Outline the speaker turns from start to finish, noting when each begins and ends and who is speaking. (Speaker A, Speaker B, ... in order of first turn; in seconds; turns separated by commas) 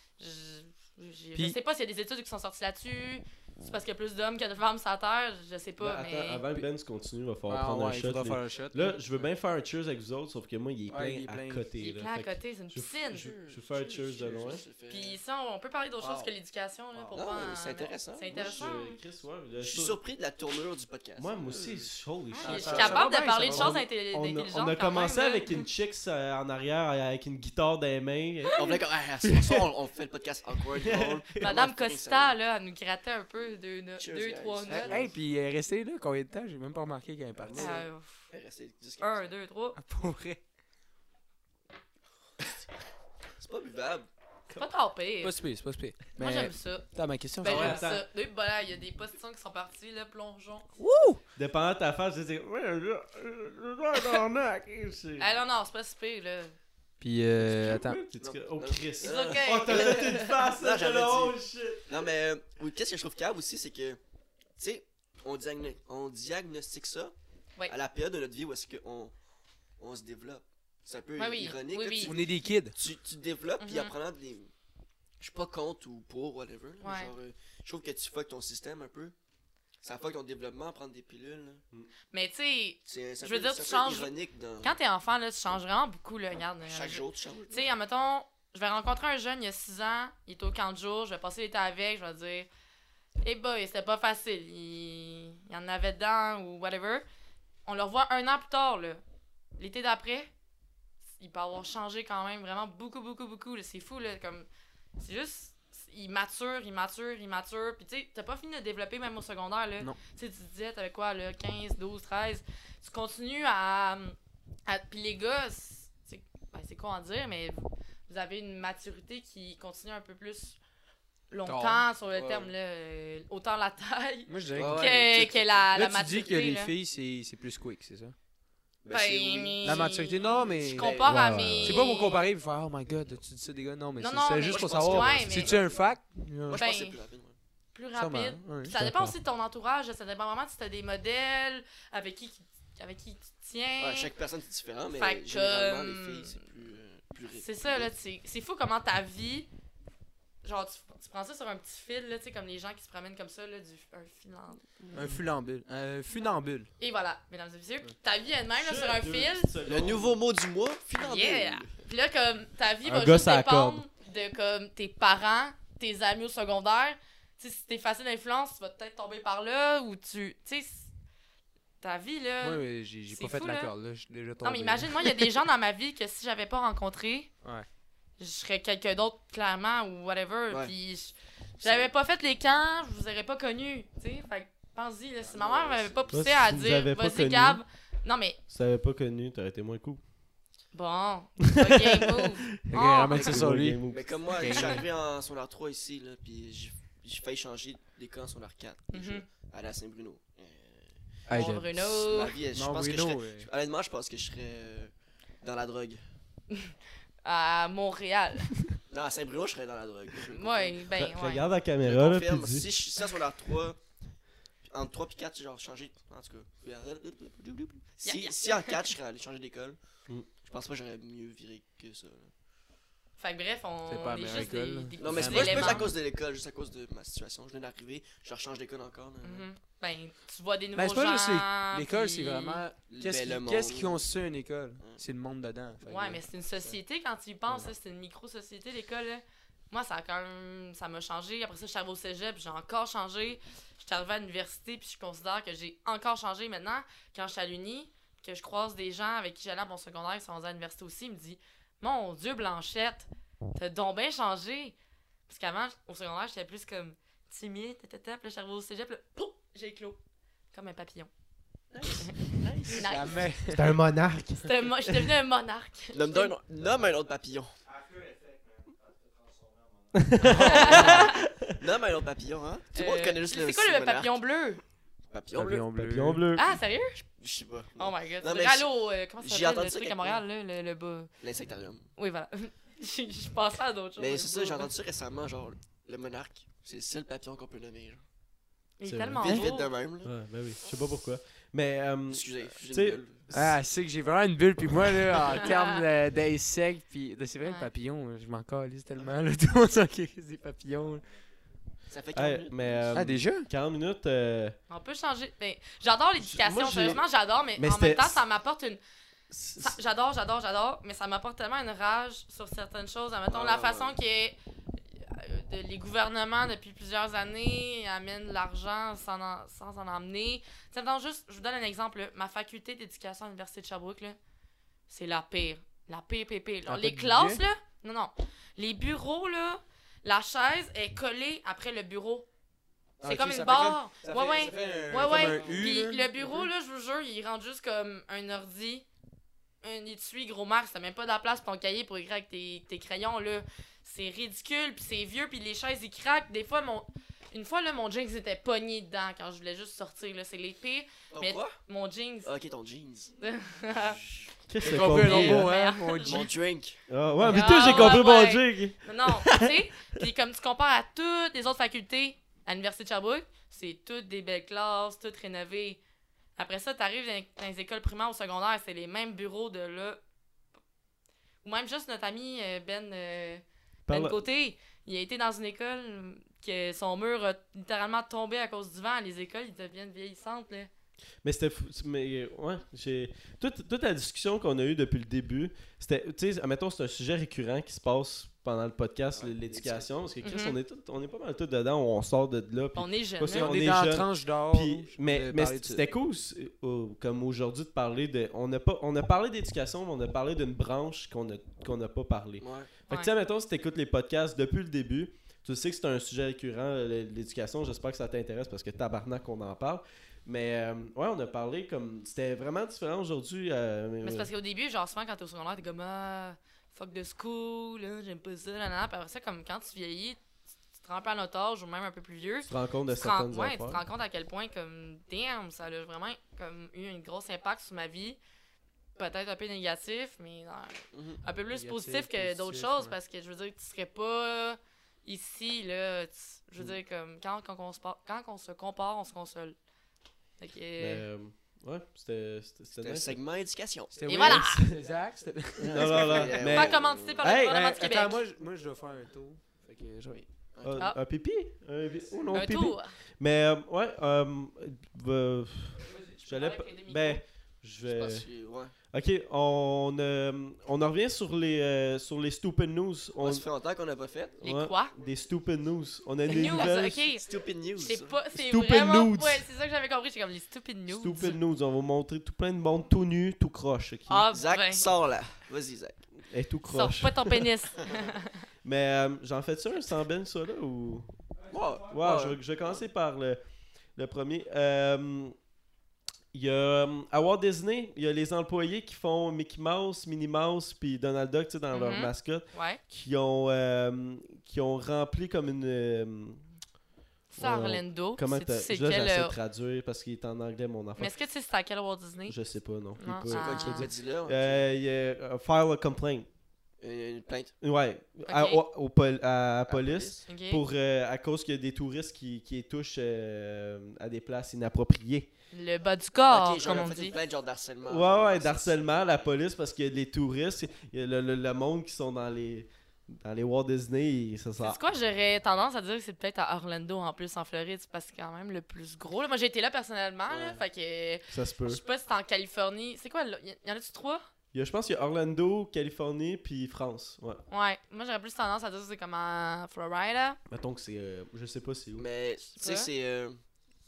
Speaker A: 0.2-6.4, Speaker B: 5.8-14.6, Speaker C: 7.5-9.3, Speaker C: 10.9-11.7, Speaker A: 11.8-13.3, Speaker D: 13.1-15.2, Speaker A: 14.9-19.0, Speaker C: 16.0-16.3, Speaker C: 16.9-17.2, Speaker D: 17.1-18.4, Speaker B: 18.3-20.0, Speaker D: 19.6-21.9, Speaker B: 21.2-28.6, Speaker A: 22.4-25.6, Speaker C: 22.4-23.8, Speaker D: 22.6-23.1, Speaker A: 28.5-28.8, Speaker D: 28.6-32.4, Speaker B: 29.2-29.6, Speaker B: 30.8-31.4, Speaker A: 31.4-35.0, Speaker D: 34.0-35.1, Speaker C: 34.7-37.8, Speaker D: 37.5-39.3, Speaker A: 37.5-38.2, Speaker A: 39.0-39.8, Speaker C: 39.8-40.4, Speaker D: 43.4-44.1, Speaker A: 44.5-45.4, Speaker C: 45.2-47.8, Speaker A: 46.2-46.9, Speaker A: 47.4-50.7, Speaker B: 47.4-48.1, Speaker C: 50.8-51.2, Speaker B: 51.4-55.3, Speaker A: 55.2-56.6, Speaker C: 57.0-58.0, Speaker B: 57.4-61.9, Speaker D: 58.2-61.4, Speaker A: 59.0-60.3, Speaker D: 61.9-64.0, Speaker D: 64.6-67.1, Speaker D: 67.7-69.1, Speaker D: 69.8-74.5, Speaker A: 71.2-72.2, Speaker C: 72.0-72.8, Speaker A: 73.6-73.9, Speaker D: 75.2-79.2, Speaker A: 76.8-77.1, Speaker D: 79.8-81.6, Speaker A: 82.1-92.5, Speaker D: 82.9-84.8, Speaker D: 86.7-87.7, Speaker A: 93.2-97.0, Speaker A: 97.7-99.0, Speaker A: 99.6-100.3, Speaker A: 101.2-114.2, Speaker A: 114.7-120.6, Speaker A: 121.3-126.7, Speaker C: 121.4-122.4, Speaker C: 124.3-128.2, Speaker D: 124.6-125.5, Speaker D: 128.8-129.9, Speaker A: 128.9-132.2, Speaker C: 129.6-131.1, Speaker D: 130.6-131.2, Speaker B: 131.0-131.8, Speaker C: 131.6-136.6, Speaker A: 134.0-135.7, Speaker D: 134.4-135.8, Speaker D: 136.4-137.3, Speaker A: 136.6-137.0, Speaker A: 137.8-144.1, Speaker C: 137.9-138.8, Speaker B: 138.7-139.2, Speaker D: 143.8-147.9, Speaker A: 144.9-146.4, Speaker A: 147.3-149.5, Speaker A: 150.4-154.9, Speaker C: 154.9-156.7, Speaker A: 156.8-159.5, Speaker B: 158.6-160.2, Speaker D: 159.7-161.7, Speaker A: 160.9-170.9, Speaker B: 162.8-163.8, Speaker A: 171.8-173.7, Speaker C: 172.4-175.3, Speaker A: 174.4-177.3, Speaker A: 178.2-188.4, Speaker D: 181.6-181.9, Speaker D: 185.2-186.1, Speaker B: 186.1-187.6, Speaker B: 188.5-190.0, Speaker A: 190.7-193.4, Speaker B: 191.4-194.2, Speaker C: 192.7-193.8, Speaker D: 193.9-206.0, Speaker C: 194.3-194.8, Speaker A: 194.5-194.8, Speaker A: 198.9-199.2, Speaker C: 201.3-201.7, Speaker A: 201.3-202.4, Speaker C: 202.5-203.5, Speaker A: 207.2-208.6, Speaker D: 208.9-210.9, Speaker A: 210.2-211.5, Speaker B: 211.0-212.7, Speaker D: 211.8-213.8, Speaker D: 214.7-219.8, Speaker A: 218.0-218.9, Speaker D: 220.4-222.3, Speaker A: 223.2-225.9, Speaker C: 223.9-225.9, Speaker D: 225.0-229.5, Speaker A: 229.2-232.7, Speaker C: 230.8-236.8, Speaker D: 232.9-234.0, Speaker A: 235.9-254.8, Speaker A: 255.3-260.0, Speaker A: 260.5-261.1, Speaker D: 261.7-263.2, Speaker A: 261.8-263.3, Speaker C: 262.7-263.8, Speaker B: 263.5-265.1, Speaker A: 264.4-266.3, Speaker D: 265.9-267.6, Speaker B: 269.9-271.6, Speaker C: 270.2-270.9, Speaker D: 270.3-274.2, Speaker A: 270.4-271.2, Speaker A: 272.7-274.6, Speaker D: 275.1-275.7, Speaker C: 275.3-276.2, Speaker B: 275.7-276.6, Speaker A: 276.4-277.0, Speaker D: 277.1-278.7, Speaker A: 277.8-281.1, Speaker D: 279.2-280.2, Speaker D: 281.2-281.9, Speaker A: 282.0-284.7, Speaker D: 284.0-288.0, Speaker A: 288.8-289.7, Speaker B: 288.8-289.5, Speaker D: 289.2-290.1, Speaker B: 290.0-293.6, Speaker D: 292.1-293.2, Speaker C: 293.3-301.0, Speaker A: 295.4-295.8, Speaker A: 297.4-297.7, Speaker D: 301.9-303.1, Speaker B: 302.1-304.6, Speaker C: 302.9-303.5, Speaker A: 304.7-308.8, Speaker B: 306.2-307.0, Speaker B: 307.6-308.2, Speaker B: 309.3-309.8, Speaker A: 309.6-314.4, Speaker D: 313.3-314.0, Speaker A: 314.9-324.2, Speaker A: 324.9-332.3, Speaker C: 326.7-327.4, Speaker C: 333.0-336.5, Speaker A: 333.0-338.9, Speaker D: 335.0-335.7, Speaker A: 339.6-352.3, Speaker D: 351.1-351.6, Speaker D: 352.2-353.1, Speaker A: 353.2-354.0, Speaker D: 353.7-354.3, Speaker B: 354.5-355.5, Speaker C: 354.6-356.3, Speaker A: 354.7-356.3, Speaker D: 356.0-356.8, Speaker B: 356.9-359.5, Speaker C: 357.2-357.9, Speaker A: 357.2-365.8, Speaker A: 366.4-370.0, Speaker A: 371.4-380.7, Speaker B: 373.9-374.2, Speaker B: 381.2-414.3, Speaker D: 389.1-389.9, Speaker A: 390.2-390.6, Speaker A: 392.8-393.6, Speaker C: 393.2-395.9, Speaker D: 402.4-402.7, Speaker A: 414.0-420.2, Speaker A: 420.8-428.2, Speaker B: 422.5-423.8, Speaker A: 429.0-439.6, Speaker D: 430.9-431.2, Speaker C: 431.5-432.9, Speaker A: 440.4-441.1, Speaker B: 440.8-443.2, Speaker D: 442.8-444.2, Speaker C: 443.9-446.4, Speaker A: 444.1-444.6, Speaker B: 444.2-444.8, Speaker B: 445.6-447.6, Speaker D: 445.6-447.2, Speaker A: 446.5-448.2, Speaker C: 447.2-450.2, Speaker D: 450.6-450.8, Speaker B: 450.6-458.3, Speaker A: 452.3-453.0, Speaker A: 456.1-457.2, Speaker D: 457.9-458.7, Speaker B: 458.9-463.4, Speaker D: 463.2-464.4, Speaker B: 464.4-467.1, Speaker A: 464.4-464.9, Speaker A: 466.2-471.4, Speaker D: 467.2-468.2, Speaker B: 468.3-469.5, Speaker B: 470.9-474.3, Speaker A: 474.1-474.9, Speaker D: 474.3-476.0, Speaker B: 476.3-477.5, Speaker A: 476.7-478.4, Speaker B: 478.6-481.2, Speaker D: 481.5-482.8, Speaker B: 481.9-483.4, Speaker B: 484.0-485.4, Speaker B: 486.3-496.4, Speaker A: 491.7-492.8, Speaker A: 497.3-499.4, Speaker B: 497.4-501.1, Speaker A: 501.0-502.4, Speaker B: 502.3-506.3, Speaker A: 503.0-503.9, Speaker D: 503.3-504.7, Speaker D: 506.8-507.5, Speaker B: 507.6-515.3, Speaker A: 508.3-508.6, Speaker D: 509.7-510.2, Speaker A: 510.3-510.6, Speaker A: 515.5-517.2, Speaker D: 516.3-519.3, Speaker B: 517.9-524.8, Speaker A: 524.6-534.2, Speaker D: 530.3-530.6, Speaker B: 531.3-531.8, Speaker B: 534.5-537.4, Speaker A: 537.5-540.4, Speaker B: 540.5-542.1, Speaker D: 542.0-543.4, Speaker A: 542.6-542.9